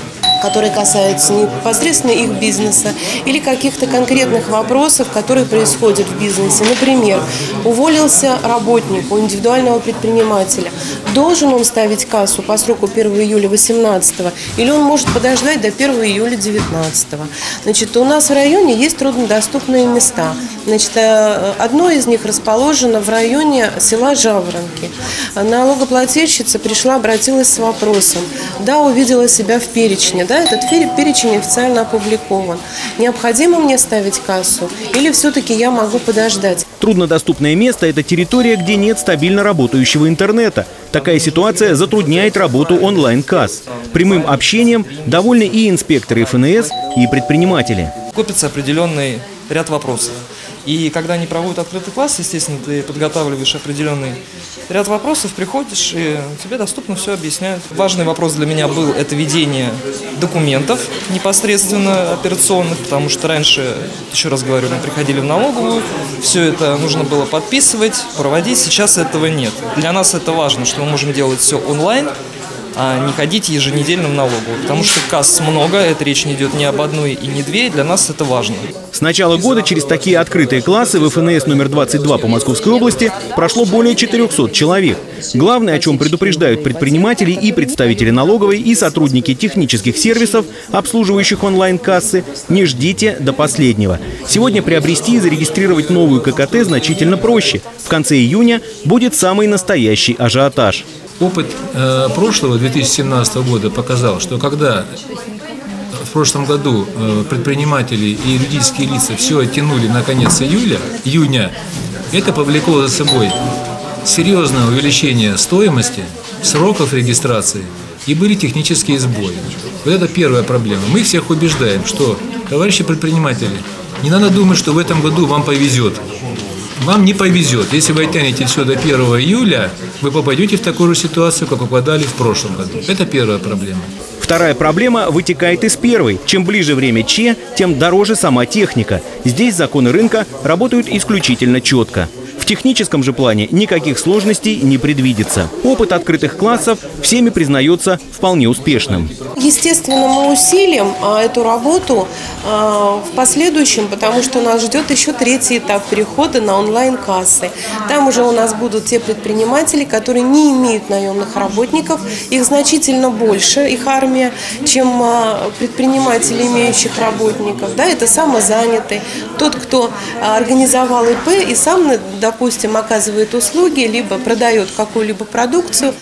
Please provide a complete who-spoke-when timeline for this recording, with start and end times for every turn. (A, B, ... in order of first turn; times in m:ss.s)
0:00.4-0:36.7 A
0:36.8-0:47.9 B
0:48.1-1:12.1 C
1:12.8-1:18.7 C
1:18.9-1:40.9 B
1:41.2-1:44.9 D
1:46.0-1:51.6 D
1:52.1-1:53.4 D
1:54.0-2:06.0 D
2:06.8-2:13.9 D
2:14.2-2:29.1 B
2:29.4-2:55.9 A